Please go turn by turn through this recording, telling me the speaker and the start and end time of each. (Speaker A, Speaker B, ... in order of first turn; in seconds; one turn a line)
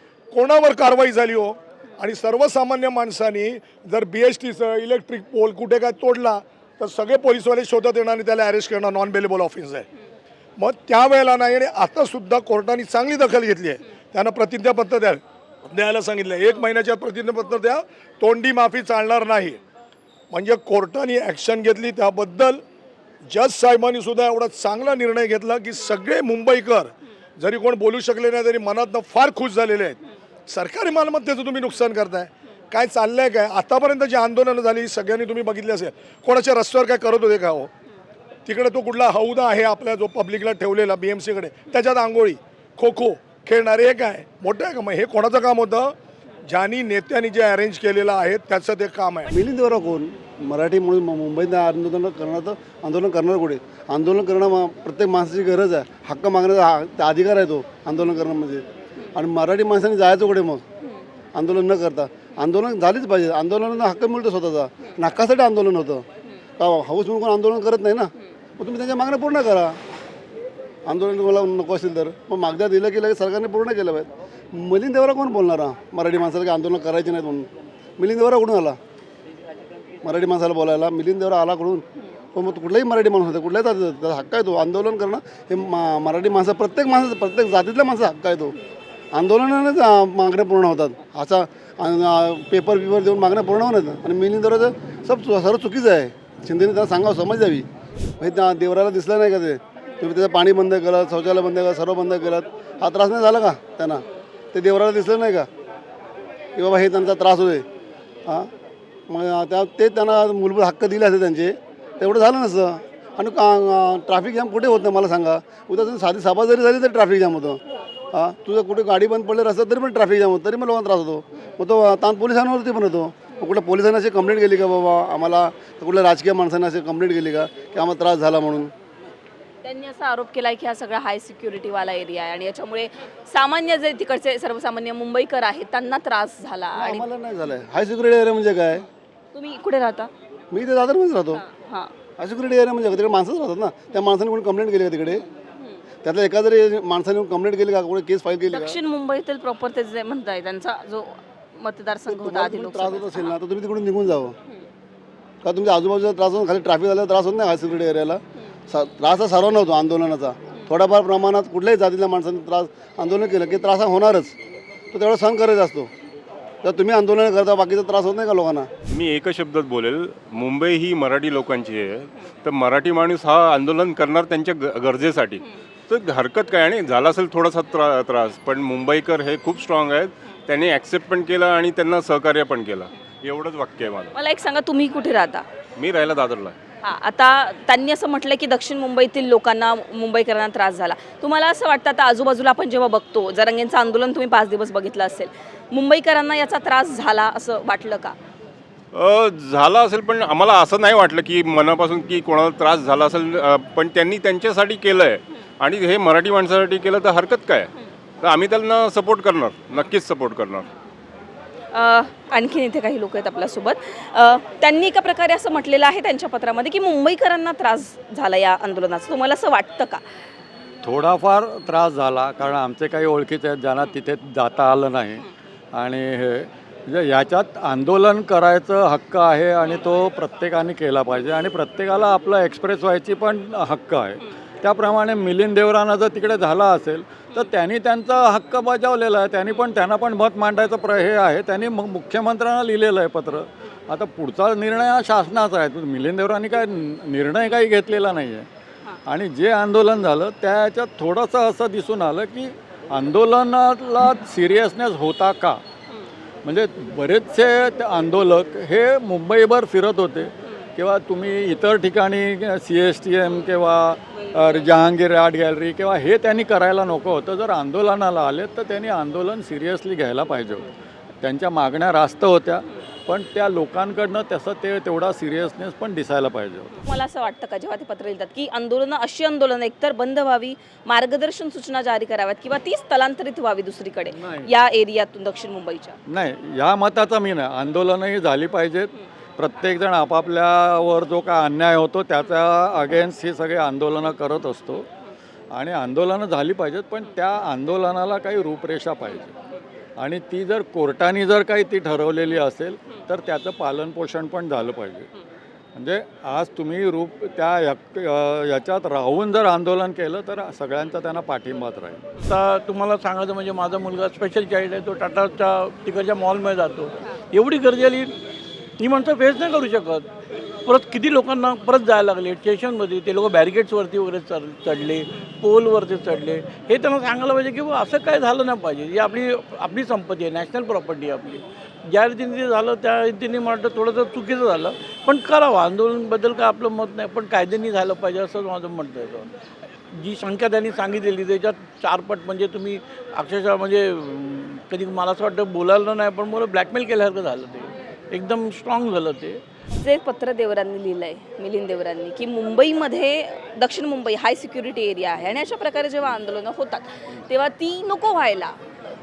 Speaker A: 0.3-9.8
Speaker A: 10.6-19.6
Speaker A: 20.3-22.6
Speaker A: 23.3-37.7
Speaker A: 38.5-45.9
Speaker A: 46.5-49.3
Speaker B: 49.3-60.6
Speaker B: 61.3-66.0
Speaker B: 66.6-69.7
Speaker B: 70.8-78.8
Speaker B: 80.0-88.5
Speaker B: 89.1-97.7
Speaker B: 98.2-105.5
Speaker B: 106.5-107.7
Speaker B: 109.1-117.6
Speaker B: 118.1-128.7
Speaker C: 129.6-137.1
Speaker B: 136.8-138.8
Speaker C: 139.3-140.1
Speaker B: 140.5-141.4
Speaker C: 141.4-141.9
Speaker B: 142.2-145.2
Speaker C: 145.2-145.7
Speaker B: 146.0-148.8
Speaker C: 148.5-153.3
Speaker B: 152.1-154.3
Speaker B: 155.4-164.3
Speaker B: 164.9-165.9
Speaker B: 166.6-168.7
Speaker D: 168.9-184.1
Speaker C: 184.1-185.4
Speaker D: 185.8-186.6
Speaker C: 186.8-198.1
Speaker D: 198.9-207.7
Speaker D: 208.2-210.7
Speaker C: 211.7-220.0
Speaker E: 220.8-248.5
Speaker E: 249.1-255.6
Speaker E: 256.4-270.7
Speaker E: 271.2-276.7
Speaker C: 276.8-285.9
Speaker E: 284.1-284.5
Speaker E: 286.1-294.9
Speaker E: 295.5-299.3
Speaker E: 300.0-305.1
Speaker E: 305.8-312.1
Speaker F: 312.2-318.2
Speaker F: 318.8-320.1
Speaker F: 320.6-339.3
Speaker F: 339.9-349.4
Speaker C: 349.8-358.6